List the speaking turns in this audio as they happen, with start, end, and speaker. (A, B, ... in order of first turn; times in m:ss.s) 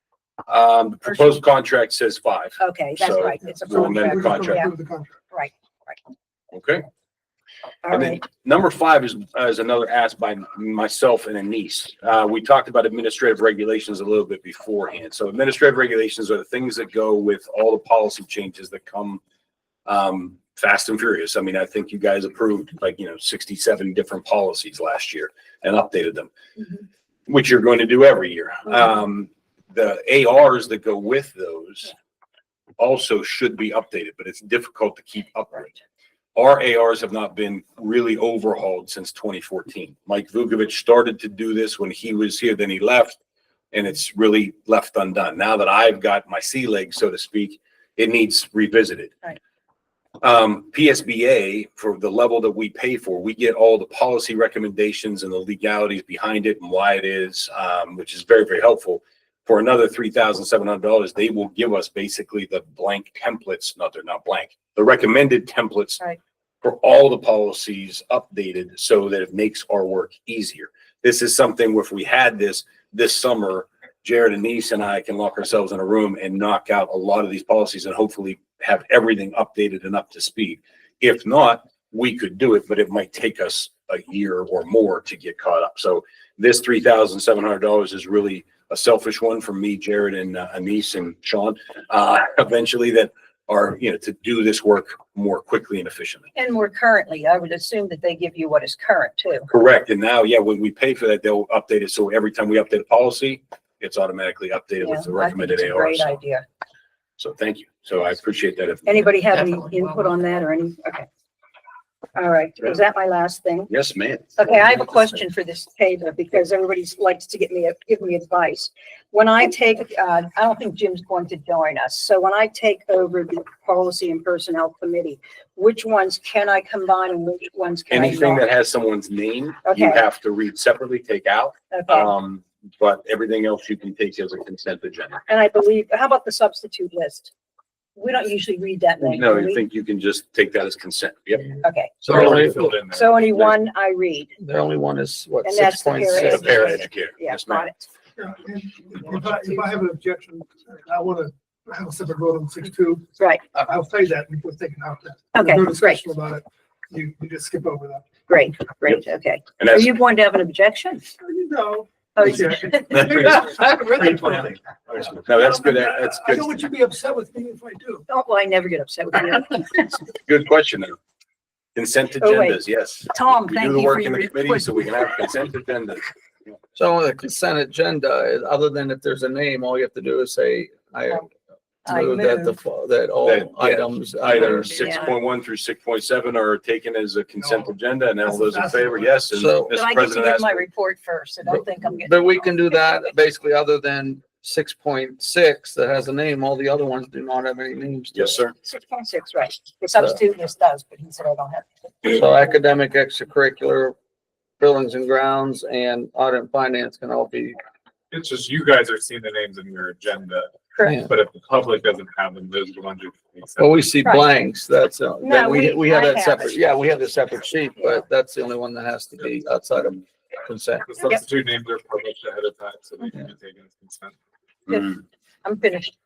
0:00.5-0:04.7 A
0:02.6-0:04.7 B
0:03.6-0:05.2 C
0:05.3-0:06.0 B
0:06.5-0:06.8 A
0:07.8-0:08.2 B
0:07.9-0:19.2 A
0:19.9-0:26.3 A
0:27.3-0:31.9 A
0:32.8-0:35.7 A
0:36.3-0:43.2 A
0:43.7-0:49.1 A
0:50.2-1:06.0 A
1:06.6-1:36.3 A
1:36.4-1:39.5 B
1:39.5-1:46.2 A
1:44.8-1:46.5 B
1:47.2-1:49.1 A
1:48.9-1:51.1 B
1:52.2-1:53.7 B
1:53.7-1:54.5 A
1:54.4-2:08.4 B
2:07.9-2:15.2 A
2:09.6-2:10.0 B
2:11.7-2:12.1 B
2:15.3-2:17.3 B
2:18.0-2:19.6 B
2:19.0-2:21.6 A
2:21.6-2:22.3 B
2:22.0-2:22.8 D
2:22.0-2:23.5 E
2:22.9-2:24.3 B
2:24.4-2:26.8 D
2:25.4-2:27.9 B
2:26.0-2:27.7 A
2:28.2-2:38.1 C
2:33.2-2:33.4 B
2:35.3-2:36.0 B
2:38.3-2:41.0 B
2:39.6-2:39.8 A
2:41.2-2:48.0 C
2:42.2-2:43.3 B
2:45.0-2:46.6 A
2:48.1-2:50.0 B
2:50.2-2:51.0 A
2:51.8-2:56.0 A
2:52.2-2:55.1 B
2:56.8-3:01.3 D
3:01.8-3:02.6 B
3:01.8-3:05.1 D
3:03.2-3:10.6 A
3:04.8-3:05.1 B
3:07.4-3:07.7 C
3:08.2-3:09.1 C
3:09.3-3:09.8 D
3:09.7-3:13.1 B
3:11.5-3:18.4 D
3:18.1-3:18.5 A
3:18.6-3:22.2 B
3:22.0-3:23.9 D
3:24.6-3:27.6 D
3:28.1-3:33.8 E
3:30.8-3:31.0 B
3:30.8-3:31.1 D
3:33.6-3:41.0 D
3:34.0-3:34.3 B
3:35.2-3:36.6 B
3:40.9-3:44.2 E
3:44.7-3:45.0 A
3:44.7-3:45.9 B